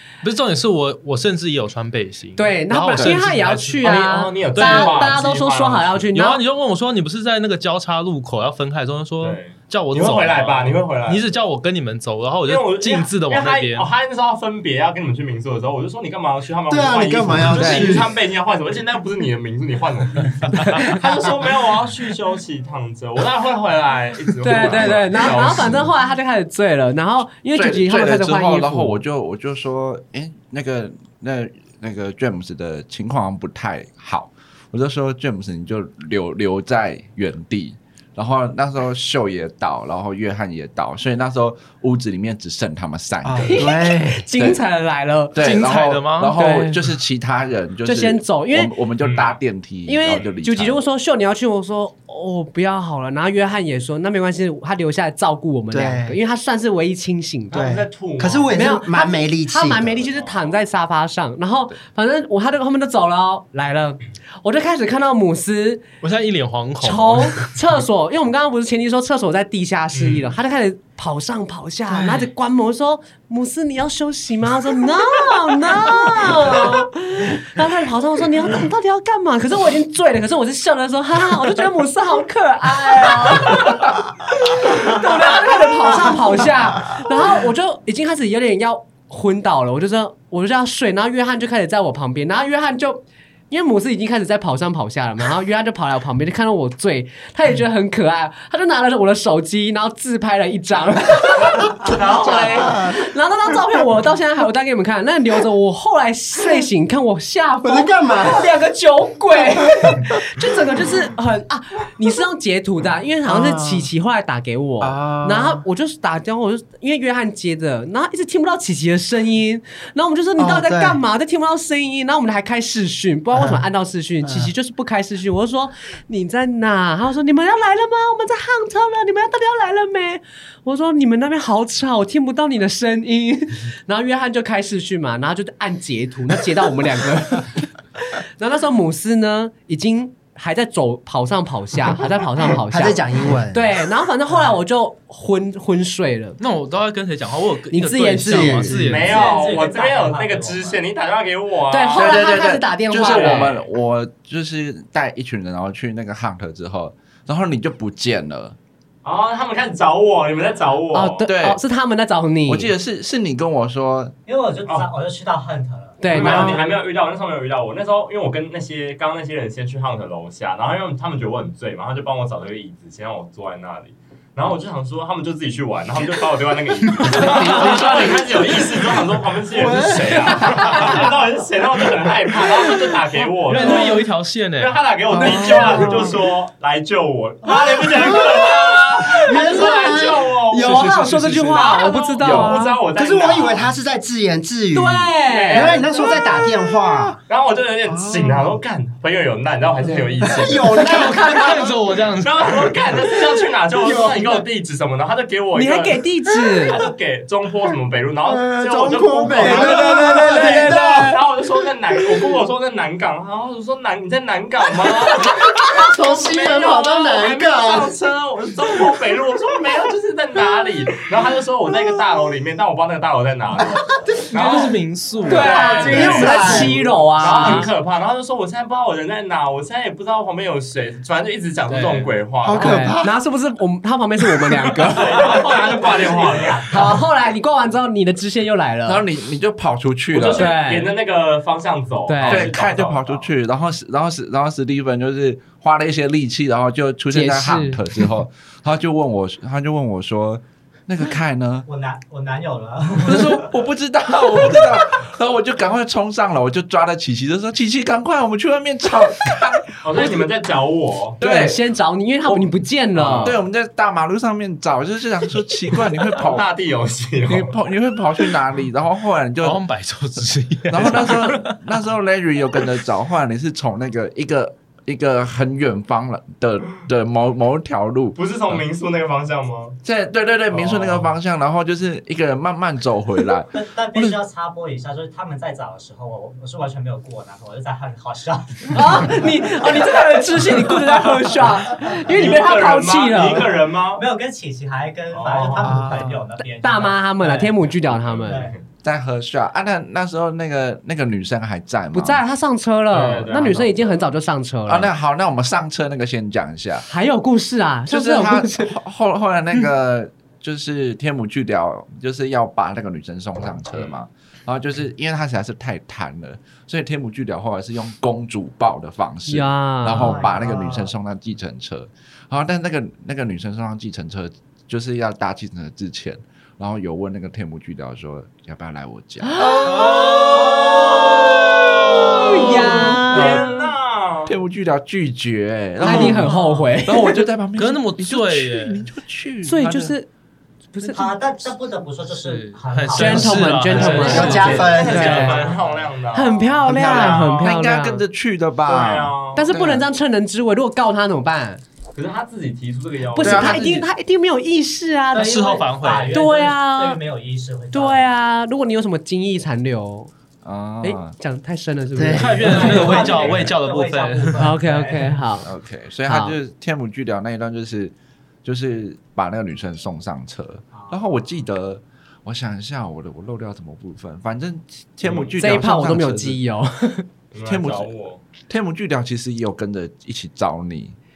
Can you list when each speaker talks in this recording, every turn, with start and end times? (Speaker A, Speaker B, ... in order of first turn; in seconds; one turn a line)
Speaker A: 0.2-3.9
Speaker B: 2.4-6.4
Speaker C: 3.8-6.0
Speaker A: 4.5-5.2
Speaker A: 6.1-13.9
Speaker C: 9.2-11.3
Speaker C: 12.4-25.9
Speaker D: 16.7-18.1
Speaker B: 17.6-17.9
Speaker B: 24.4-29.0
Speaker E: 27.5-43.7
Speaker D: 43.2-44.2
Speaker B: 43.4-45.7
Speaker E: 45.3-50.8
Speaker A: 45.4-46.4
Speaker B: 46.3-46.9
Speaker B: 47.9-48.7
Speaker C: 49.0-49.4
Speaker B: 49.9-57.6
Speaker D: 55.7-56.2
Speaker C: 57.5-58.5
Speaker D: 57.5-60.1
Speaker B: 58.5-65.8
Speaker C: 60.1-60.5
Speaker A: 66.0-67.5
Speaker B: 66.8-146.4
Speaker C: 69.9-70.2
Speaker D: 101.8-103.1
Speaker D: 107.6-108.5
Speaker D: 109.8-110.1
Speaker D: 113.2-113.9
Speaker D: 114.8-115.6
Speaker D: 120.4-121.0
Speaker D: 123.3-123.6
Speaker D: 124.2-124.5
Speaker D: 142.6-143.8
Speaker A: 146.4-149.3
Speaker B: 147.7-148.9
Speaker D: 148.3-148.9
Speaker C: 148.8-152.2
Speaker F: 149.0-150.8
Speaker B: 151.7-153.5
Speaker E: 151.9-158.6
Speaker C: 153.0-153.6
Speaker C: 159.0-161.3
Speaker B: 160.9-162.7
Speaker E: 161.3-161.6
Speaker E: 162.5-164.1
Speaker F: 164.3-166.5
Speaker B: 166.0-166.8
Speaker C: 166.1-184.1
Speaker A: 177.2-177.9
Speaker E: 177.2-178.1
Speaker D: 179.5-181.0
Speaker A: 183.5-184.7
Speaker C: 184.6-190.9
Speaker D: 185.2-186.1
Speaker B: 185.4-186.0
Speaker D: 187.5-190.9
Speaker B: 189.3-189.7
Speaker B: 190.6-192.8
Speaker A: 190.6-191.7
Speaker C: 191.5-193.7
Speaker E: 192.2-192.6
Speaker D: 192.9-197.2
Speaker B: 194.7-195.8
Speaker C: 195.3-196.4
Speaker C: 197.3-206.0
Speaker D: 197.9-198.6
Speaker D: 199.9-201.7
Speaker A: 200.7-202.5
Speaker B: 200.9-201.2
Speaker D: 203.7-204.4
Speaker B: 205.5-206.8
Speaker C: 206.7-232.9
Speaker D: 208.3-211.2
Speaker B: 209.4-211.2
Speaker D: 215.2-217.9
Speaker D: 223.6-224.7
Speaker A: 224.3-226.2
Speaker B: 225.3-227.7
Speaker D: 225.5-227.6
Speaker D: 232.4-233.2
Speaker B: 232.5-235.5
Speaker C: 234.9-237.0
Speaker F: 235.3-237.0
Speaker B: 236.7-239.1
Speaker E: 238.9-240.6
Speaker C: 240.1-243.3
Speaker B: 240.3-240.9
Speaker B: 242.1-242.5
Speaker E: 242.2-251.7
Speaker B: 247.1-247.8
Speaker F: 251.7-253.5
Speaker E: 253.1-260.2
Speaker C: 259.8-261.2
Speaker E: 261.2-261.6
Speaker B: 261.2-263.4
Speaker C: 263.0-263.3
Speaker E: 263.1-266.4
Speaker C: 266.1-267.6
Speaker E: 267.3-269.6
Speaker A: 269.4-271.6
Speaker E: 270.7-278.2
Speaker C: 278.1-279.8
Speaker E: 279.8-284.2
Speaker C: 280.5-281.1
Speaker F: 283.5-290.0
Speaker B: 288.7-293.5
Speaker C: 292.1-294.0
Speaker F: 293.9-297.6
Speaker C: 295.1-295.9
Speaker B: 296.6-298.4
Speaker C: 297.9-298.6
Speaker F: 298.2-298.6
Speaker E: 298.8-302.2
Speaker B: 301.9-304.9
Speaker C: 302.9-304.0
Speaker E: 304.7-306.9
Speaker B: 306.9-308.7
Speaker E: 307.9-329.7
Speaker B: 319.3-320.3
Speaker F: 319.9-320.9
Speaker B: 329.2-331.4
Speaker C: 330.5-334.4
Speaker B: 331.9-333.6
Speaker F: 332.8-333.2
Speaker E: 333.1-333.4
Speaker E: 334.3-336.3
Speaker B: 335.8-337.2
Speaker F: 336.1-336.8
Speaker E: 336.9-339.9
Speaker A: 337.6-338.8
Speaker B: 339.4-340.1
Speaker B: 340.7-341.1
Speaker F: 340.8-345.9
Speaker A: 342.2-345.6
Speaker B: 342.9-345.5
Speaker D: 343.8-345.2
Speaker C: 344.3-347.6
Speaker B: 346.1-348.0
Speaker D: 346.6-347.4
Speaker E: 347.4-349.9
Speaker C: 348.7-349.5
Speaker B: 349.4-351.6
Speaker C: 351.9-353.7
Speaker B: 353.2-355.4
Speaker E: 353.2-353.9
Speaker F: 355.1-358.1
Speaker A: 355.1-356.2
Speaker B: 356.1-357.0
Speaker B: 357.7-360.1
Speaker E: 360.4-361.2
Speaker B: 360.8-363.0
Speaker D: 361.9-362.9
Speaker A: 362.2-364.5
Speaker F: 362.4-365.2
Speaker B: 364.4-365.5
Speaker E: 365.4-376.4
Speaker B: 366.1-366.4
Speaker C: 375.0-375.4
Speaker B: 375.4-377.1
Speaker C: 377.3-378.2
Speaker E: 377.4-377.9
Speaker E: 378.5-381.0